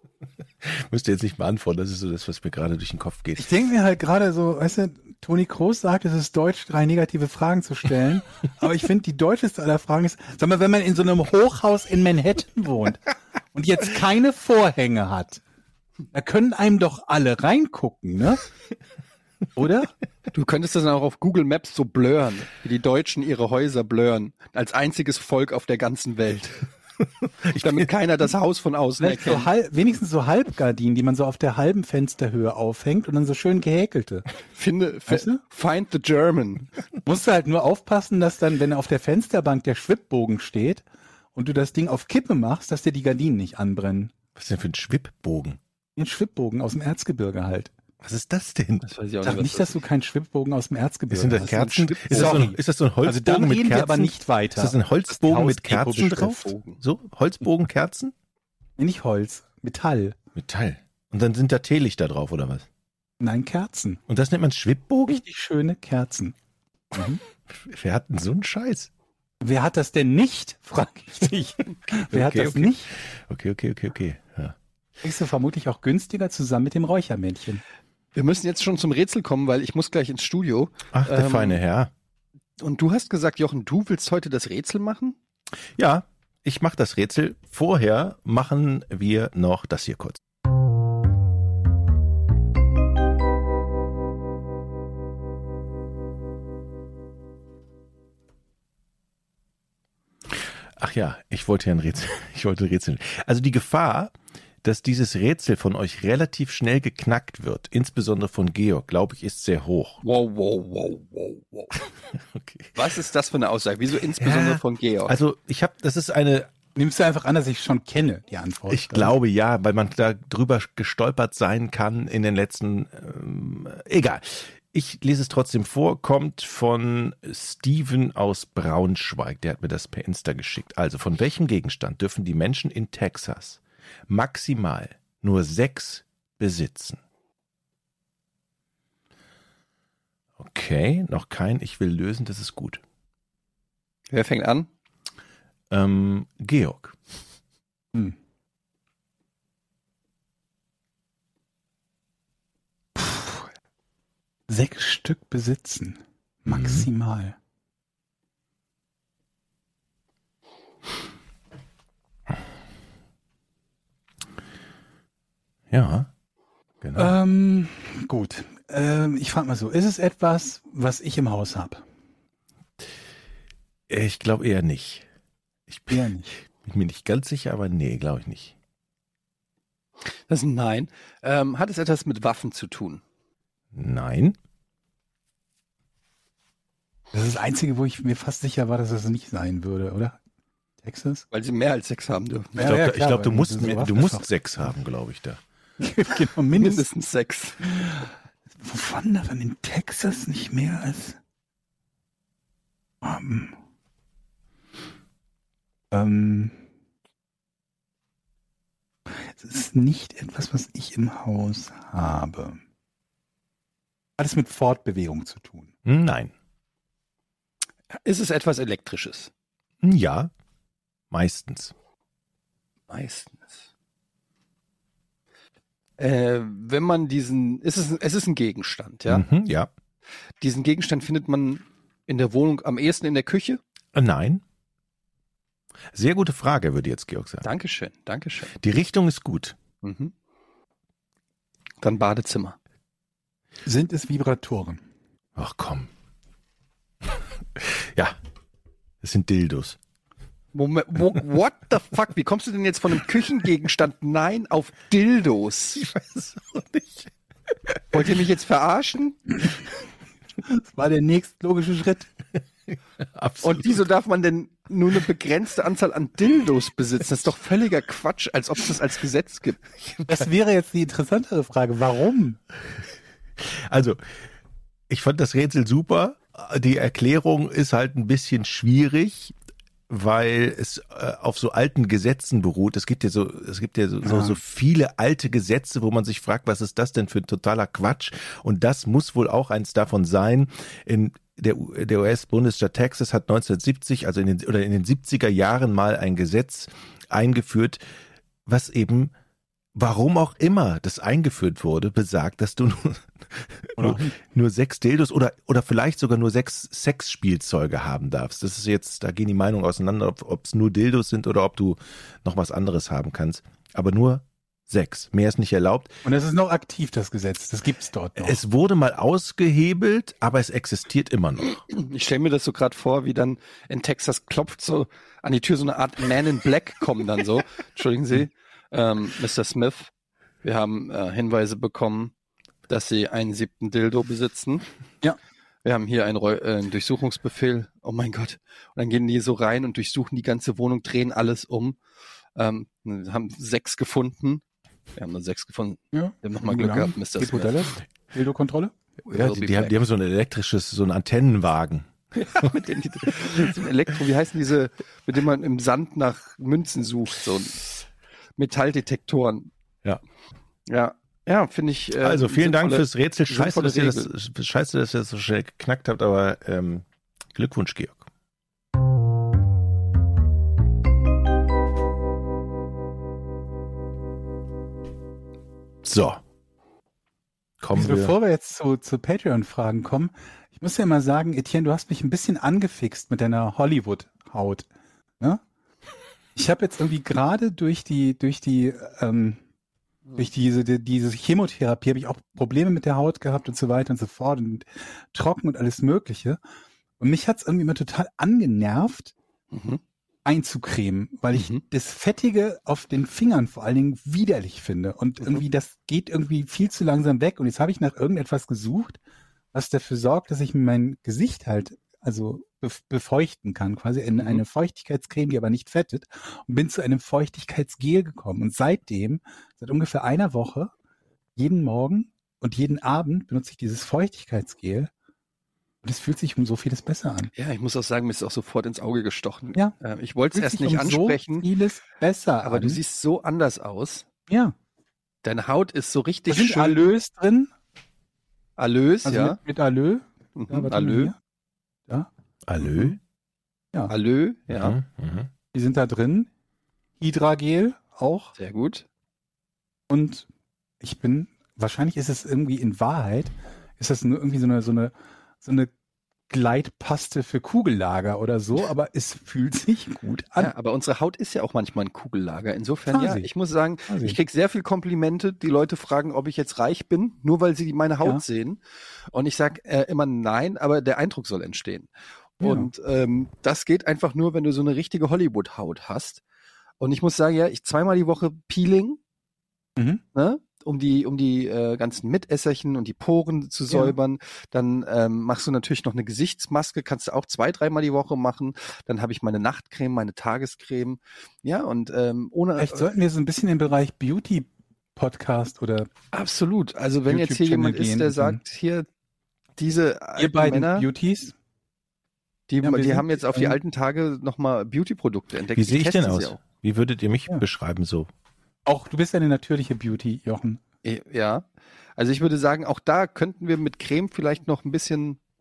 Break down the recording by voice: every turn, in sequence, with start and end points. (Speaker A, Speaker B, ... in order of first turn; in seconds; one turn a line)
Speaker A: 0.6-3.5
Speaker B: 3.4-15.4
Speaker B: 16.1-18.4
Speaker B: 19.6-19.9
Speaker C: 20.3-26.6
Speaker A: 27.3-27.9
Speaker C: 27.6-29.5
Speaker B: 29.0-34.2
Speaker C: 34.5-36.7
Speaker B: 35.1-35.4
Speaker B: 37.0-40.8
Speaker B: 41.3-44.1
Speaker A: 44.4-45.6
Speaker B: 46.0-47.7
Speaker A: 48.0-48.8
Speaker C: 48.8-49.8
Speaker B: 49.2-56.5
Speaker A: 51.1-58.1
Speaker C: 51.4-52.5
Speaker C: 56.4-56.8
Speaker B: 58.8-60.2
Speaker A: 60.3-62.7
Speaker B: 63.2-64.0
Speaker A: 64.1-65.2
Speaker B: 65.1-66.3
Speaker B: 66.9-67.2
Speaker A: 67.0-68.9
Speaker B: 69.4-72.9
Speaker A: 72.1-74.5
Speaker B: 75.0-77.6
Speaker C: 78.1-81.6
Speaker A: 80.9-81.9
Speaker C: 82.6-85.2
Speaker A: 85.8-90.2
Speaker A: 100.3-110.0
Speaker C: 110.0-111.8
Speaker A: 112.1-112.8
Speaker C: 112.8-115.2
Speaker A: 114.2-116.5
Speaker B: 116.7-119.1
Speaker A: 118.7-137.0
Speaker A: 140.4-142.8
Speaker C: 144.1-144.7
Speaker A: 145.7-147.0
Speaker B: 152.9-153.5
Speaker B: 154.5-157.3
Speaker A: 156.5-156.9
Speaker A: 165.7-166.1
Speaker A: 166.8-167.1
Speaker B: 166.9-171.8
Speaker A: 173.9-175.1
Speaker A: 175.7-178.5
Speaker B: 175.9-176.3
Speaker C: 180.3-183.0
Speaker A: 183.7-184.4
Speaker B: 187.1-190.2
Speaker B: 190.8-191.2
Speaker C: 191.3-192.7
Speaker B: 192.6-194.3
Speaker A: 192.6-195.4
Speaker B: 195.8-196.8
Speaker C: 196.5-197.8
Speaker B: 197.7-198.0
Speaker B: 198.6-201.2
Speaker B: 203.0-203.6
Speaker B: 205.9-206.6
Speaker B: 209.1-212.6
Speaker B: 214.2-215.7
Speaker A: 215.8-216.3
Speaker C: 217.9-219.3
Speaker A: 219.8-220.3
Speaker A: 221.1-221.7
Speaker C: 222.9-223.7
Speaker C: 226.0-229.2
Speaker A: 229.1-229.7
Speaker C: 230.4-233.6
Speaker A: 233.9-234.4
Speaker A: 235.9-237.5
Speaker C: 237.4-238.5
Speaker A: 238.6-239.6
Speaker C: 239.8-240.1
Speaker C: 241.8-242.6
Speaker B: 243.7-244.8
Speaker A: 245.4-245.9
Speaker A: 247.0-248.2
Speaker A: 249.0-249.8
Speaker C: 250.5-255.8
Speaker A: 255.8-257.1
Speaker A: 257.7-258.0
Speaker C: 257.9-259.3
Speaker B: 260.4-262.1
Speaker A: 263.0-263.9
Speaker C: 263.4-269.7
Speaker B: 270.1-272.4
Speaker A: 273.4-274.0
Speaker A: 274.9-279.4
Speaker A: 279.9-297.8
Speaker B: 284.0-284.4
Speaker A: 298.4-299.1
Speaker A: 299.7-315.9
Speaker B: 303.8-304.1
Speaker B: 316.0-318.4
Speaker A: 318.2-321.6
Speaker C: 321.7-329.9
Speaker C: 330.4-332.1
Speaker C: 332.7-334.6
Speaker C: 335.6-341.8
Speaker C: 342.4-344.4
Speaker C: 344.9-347.6
Speaker B: 345.9-348.7
Speaker C: 349.1-349.7
Speaker A: 349.1-353.6
Speaker C: 352.1-357.6
Speaker C: 358.4-359.5
Speaker C: 360.7-364.1
Speaker A: 362.0-368.1
Speaker A: 375.8-376.2
Speaker A: 377.6-378.1
Speaker B: 377.7-384.7
Speaker B: 386.4-389.4
Speaker B: 390.2-396.4
Speaker B: 397.0-399.1
Speaker C: 399.5-399.8
Speaker B: 400.2-409.0
Speaker C: 401.3-401.6
Speaker B: 409.5-420.7
Speaker B: 421.4-424.9
Speaker B: 425.8-427.3
Speaker C: 427.4-431.4
Speaker B: 430.3-432.8
Speaker C: 432.4-434.1
Speaker B: 434.3-434.5
Speaker C: 435.2-436.8
Speaker B: 436.3-437.5
Speaker C: 438.6-439.4
Speaker B: 439.0-441.1
Speaker C: 440.4-441.1
Speaker B: 441.9-442.9
Speaker A: 442.5-443.0
Speaker C: 443.9-444.8
Speaker A: 444.5-445.3
Speaker B: 445.5-446.3
Speaker B: 447.0-448.3
Speaker C: 448.4-448.9
Speaker B: 449.9-450.3
Speaker B: 450.8-455.7
Speaker B: 456.3-460.5
Speaker C: 460.4-468.6
Speaker B: 462.9-463.3
Speaker B: 463.9-464.2
Speaker C: 469.1-471.9
Speaker C: 472.4-476.2
Speaker B: 472.4-472.7
Speaker C: 476.8-479.0
Speaker B: 479.8-480.0
Speaker C: 480.1-492.9
Speaker B: 483.7-483.9
Speaker B: 492.6-495.9
Speaker C: 496.1-498.9
Speaker B: 497.1-498.4
Speaker C: 499.6-500.9
Speaker B: 500.2-501.3
Speaker C: 502.5-506.4
Speaker B: 502.6-503.6
Speaker A: 505.5-508.1
Speaker B: 508.6-510.6
Speaker C: 510.8-511.4
Speaker C: 512.0-515.2